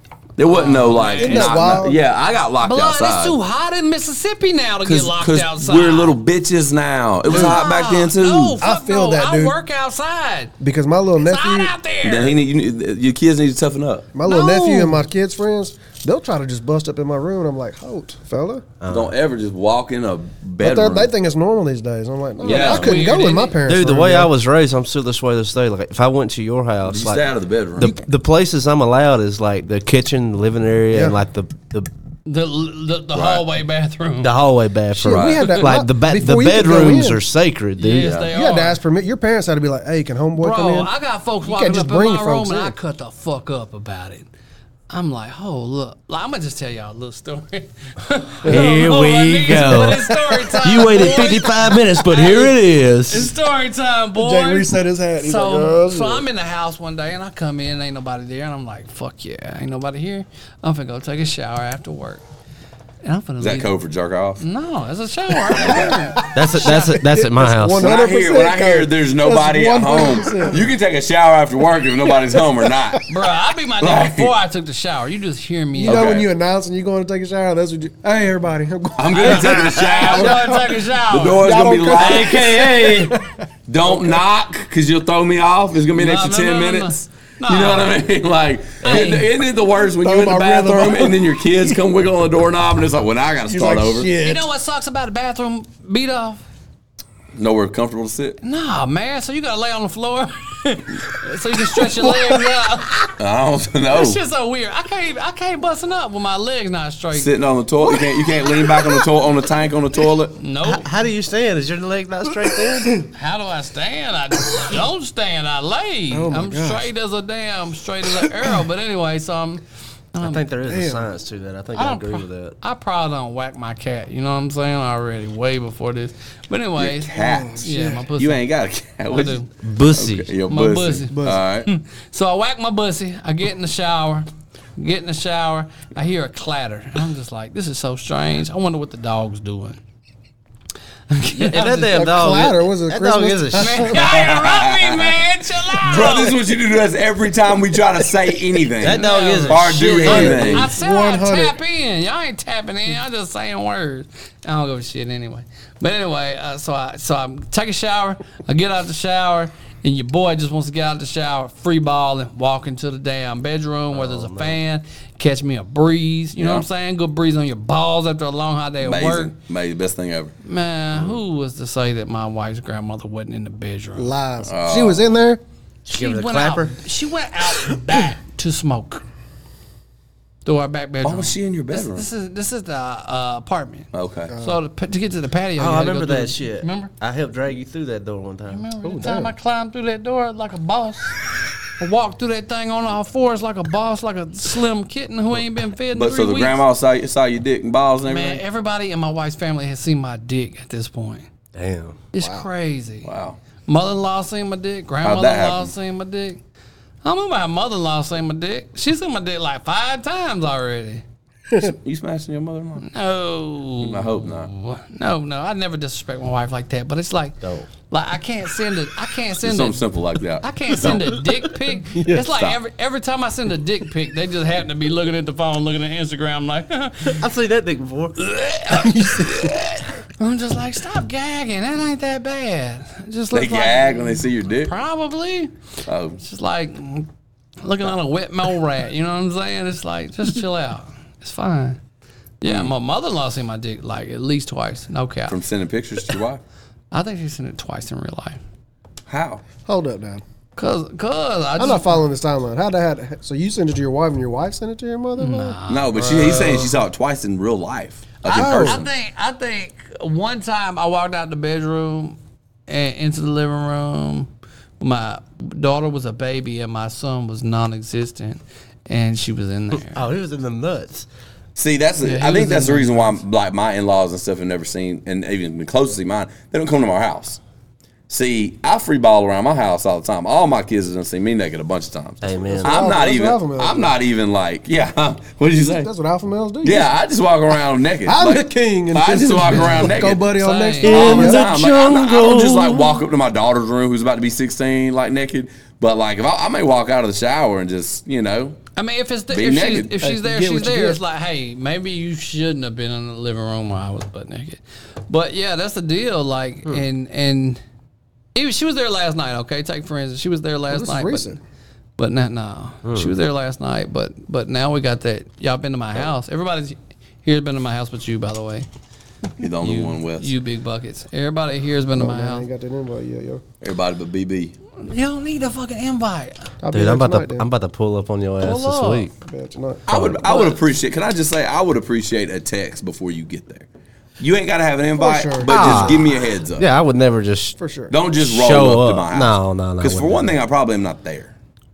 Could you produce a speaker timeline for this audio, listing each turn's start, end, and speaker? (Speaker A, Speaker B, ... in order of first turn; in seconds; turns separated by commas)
Speaker A: 0.4-3.4, Speaker B: 0.4-1.8, Speaker C: 1.2-2.0, Speaker B: 2.6-6.2, Speaker A: 4.8-8.6, Speaker B: 7.2-10.5, Speaker C: 7.2-7.6, Speaker C: 8.6-9.6, Speaker C: 10.6-11.7, Speaker B: 11.2-12.3, Speaker A: 12.0-14.1, Speaker C: 14.1-18.7, Speaker B: 14.2-15.0, Speaker D: 18.8-19.1, Speaker A: 18.9-21.1, Speaker C: 20.6-24.3, Speaker A: 22.4-23.1, Speaker B: 22.4-23.6, Speaker D: 23.6-31.9, Speaker A: 26.9-27.9, Speaker B: 32.2-34.3, Speaker A: 33.1-33.4, Speaker D: 34.2-38.2, Speaker C: 34.9-37.2, Speaker A: 35.0-35.5, Speaker B: 37.8-38.8, Speaker A: 38.0-38.3, Speaker C: 38.3-40.9, Speaker B: 40.4-44.3, Speaker C: 41.4-42.7, Speaker B: 44.9-62.2, Speaker C: 48.4-48.8, Speaker D: 48.4-53.3, Speaker C: 49.6-50.5, Speaker C: 54.2-56.2, Speaker B: 63.0-63.7, Speaker A: 63.4-64.4, Speaker B: 64.4-67.2, Speaker A: 65.5-66.2, Speaker C: 65.7-70.7, Speaker D: 66.3-67.9, Speaker A: 67.8-73.0, Speaker B: 73.1-76.2, Speaker A: 73.8-74.3, Speaker C: 75.7-80.8, Speaker A: 75.8-76.3, Speaker A: 79.0-94.1, Speaker B: 79.1-83.1, Speaker C: 81.4-83.3, Speaker C: 83.8-84.2, Speaker B: 85.9-88.0, Speaker B: 88.8-89.3, Speaker C: 89.8-91.8, Speaker C: 93.5-94.5, Speaker B: 94.2-96.4, Speaker A: 97.3-98.4, Speaker B: 98.4-103.2, Speaker C: 101.9-102.3, Speaker A: 103.2-104.2, Speaker B: 103.9-107.3, Speaker A: 107.1-110.4, Speaker B: 110.4-110.9, Speaker D: 110.6-113.1, Speaker B: 113.1-119.6, Speaker C: 116.1-116.9, Speaker C: 118.2-118.5, Speaker B: 120.1-120.4, Speaker D: 120.2-122.5, Speaker C: 120.7-121.1, Speaker B: 121.7-128.4, Speaker A: 126.8-131.7, Speaker C: 127.2-128.1, Speaker B: 129.1-129.5, Speaker D: 129.6-130.3, Speaker B: 130.5-139.8, Speaker C: 131.1-131.4, Speaker B: 141.1-142.0, Speaker D: 141.3-144.0, Speaker C: 141.9-144.0, Speaker B: 143.5-146.3, Speaker A: 143.9-145.2, Speaker A: 145.8-150.7, Speaker D: 148.8-150.7, Speaker B: 148.9-169.3, Speaker C: 150.0-151.6, Speaker D: 163.9-164.6, Speaker A: 166.4-166.7, Speaker A: 168.8-170.3, Speaker B: 170.4-174.1, Speaker C: 173.9-175.4, Speaker A: 174.4-175.1, Speaker D: 175.8-176.8, Speaker B: 175.9-179.0, Speaker B: 180.4-186.9, Speaker A: 181.0-182.1, Speaker A: 183.9-184.3, Speaker C: 184.3-184.6, Speaker D: 185.6-188.7, Speaker B: 188.5-191.2, Speaker C: 188.8-189.3, Speaker B: 191.8-196.6, Speaker A: 195.9-198.4, Speaker B: 198.0-201.3, Speaker D: 201.5-202.0, Speaker B: 202.1-203.1, Speaker C: 202.2-202.5, Speaker A: 203.0-203.4, Speaker B: 203.7-206.4, Speaker A: 205.0-205.7, Speaker B: 207.0-211.0, Speaker A: 211.5-212.9, Speaker B: 212.8-219.8, Speaker A: 213.8-214.5, Speaker D: 217.4-217.7, Speaker A: 219.4-221.1, Speaker B: 220.4-227.2, Speaker A: 222.1-222.6, Speaker D: 227.1-228.2, Speaker B: 228.2-235.5, Speaker C: 228.7-229.5, Speaker A: 233.3-234.7, Speaker A: 235.8-236.2, Speaker B: 236.2-237.1, Speaker B: 237.6-241.8, Speaker B: 242.4-245.4, Speaker A: 242.4-242.7, Speaker A: 245.3-246.4, Speaker B: 246.9-248.4, Speaker A: 249.1-249.4, Speaker C: 249.6-250.2, Speaker B: 250.6-252.0, Speaker C: 251.6-255.6, Speaker B: 255.2-256.8, Speaker A: 255.7-258.9, Speaker B: 258.2-262.2, Speaker C: 258.3-258.8, Speaker B: 262.7-264.3, Speaker B: 264.8-270.1, Speaker D: 269.8-271.1, Speaker A: 271.6-277.4, Speaker B: 272.0-273.2, Speaker A: 278.1-285.9, Speaker D: 282.2-282.8, Speaker C: 282.5-283.9, Speaker C: 285.7-286.9, Speaker A: 286.6-290.2, Speaker C: 288.0-291.5, Speaker B: 289.5-291.2, Speaker D: 290.8-293.0, Speaker A: 290.8-298.6, Speaker B: 298.8-307.6, Speaker A: 299.3-300.0, Speaker C: 300.0-301.0, Speaker B: 308.3-311.4, Speaker C: 310.7-311.4, Speaker B: 312.0-318.7, Speaker D: 312.8-313.1, Speaker A: 319.4-320.3, Speaker B: 319.6-322.5, Speaker C: 321.9-323.4, Speaker A: 323.6-324.5, Speaker B: 324.8-326.5, Speaker C: 326.6-327.4, Speaker D: 326.7-329.1, Speaker B: 328.4-329.1, Speaker C: 329.2-330.1, Speaker A: 329.9-333.7, Speaker B: 330.2-330.6, Speaker A: 334.2-336.7, Speaker C: 335.0-336.0, Speaker D: 335.4-337.6, Speaker C: 337.6-337.9, Speaker A: 337.9-341.3, Speaker D: 338.2-340.4